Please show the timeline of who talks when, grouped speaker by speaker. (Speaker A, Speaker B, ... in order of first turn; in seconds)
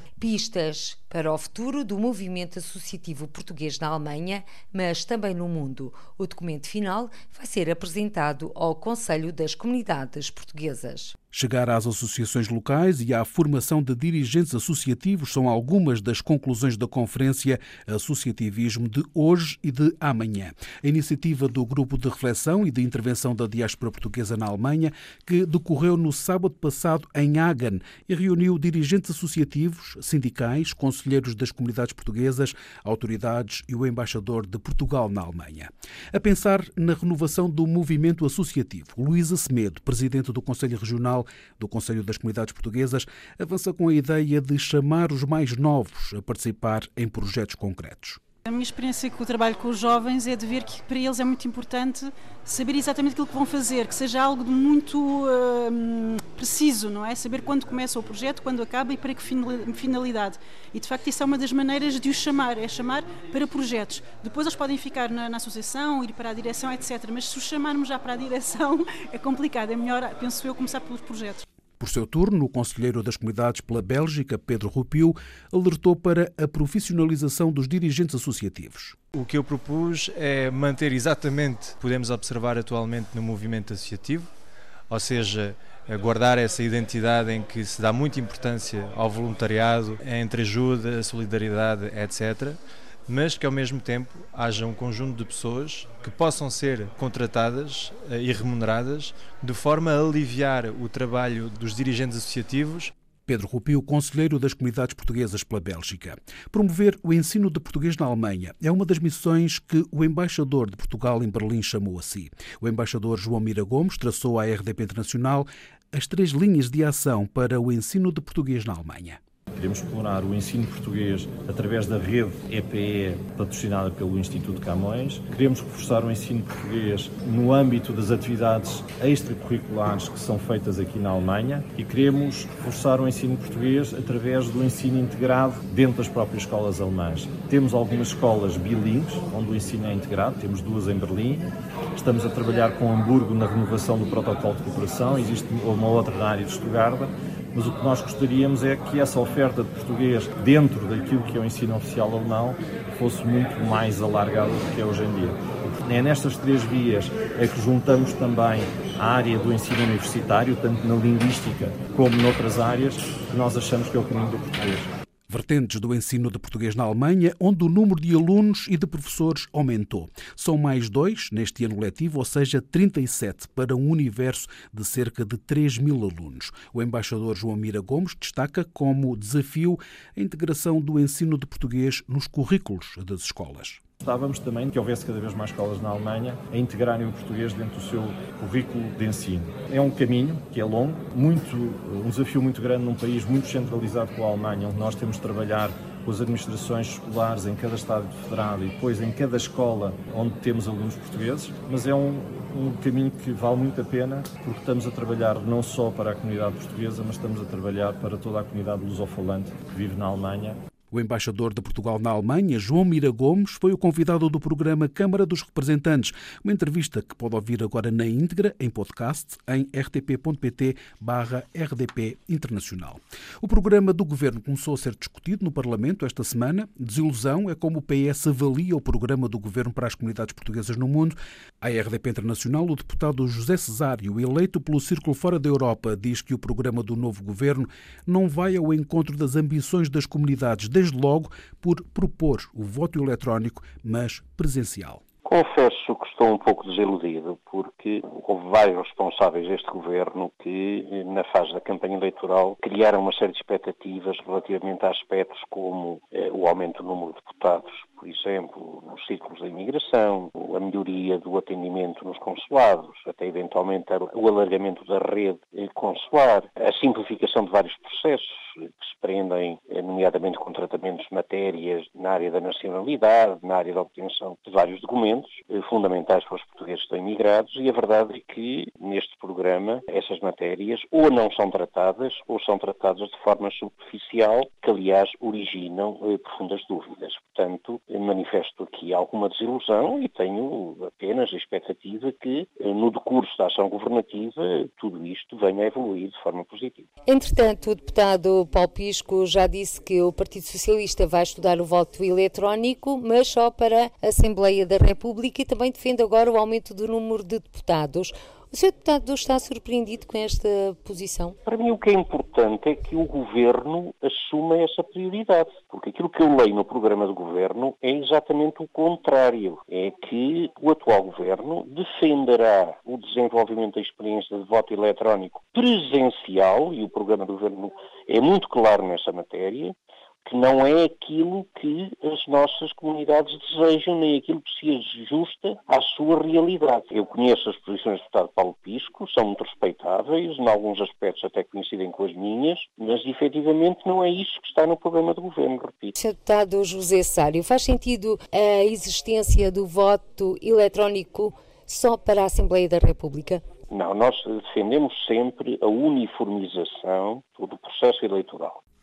Speaker A: 0.2-11.1, 297.1-311.4, 345.9-353.4
Speaker B: 11.3-48.2, 71.8-79.0, 103.3-119.2, 165.3-183.8, 210.9-245.0
Speaker C: 48.4-71.4
Speaker D: 79.1-84.3, 84.9-102.9
Speaker E: 119.5-164.9, 184.0-210.6
Speaker F: 245.2-296.9, 311.4-345.9, 353.7-358.6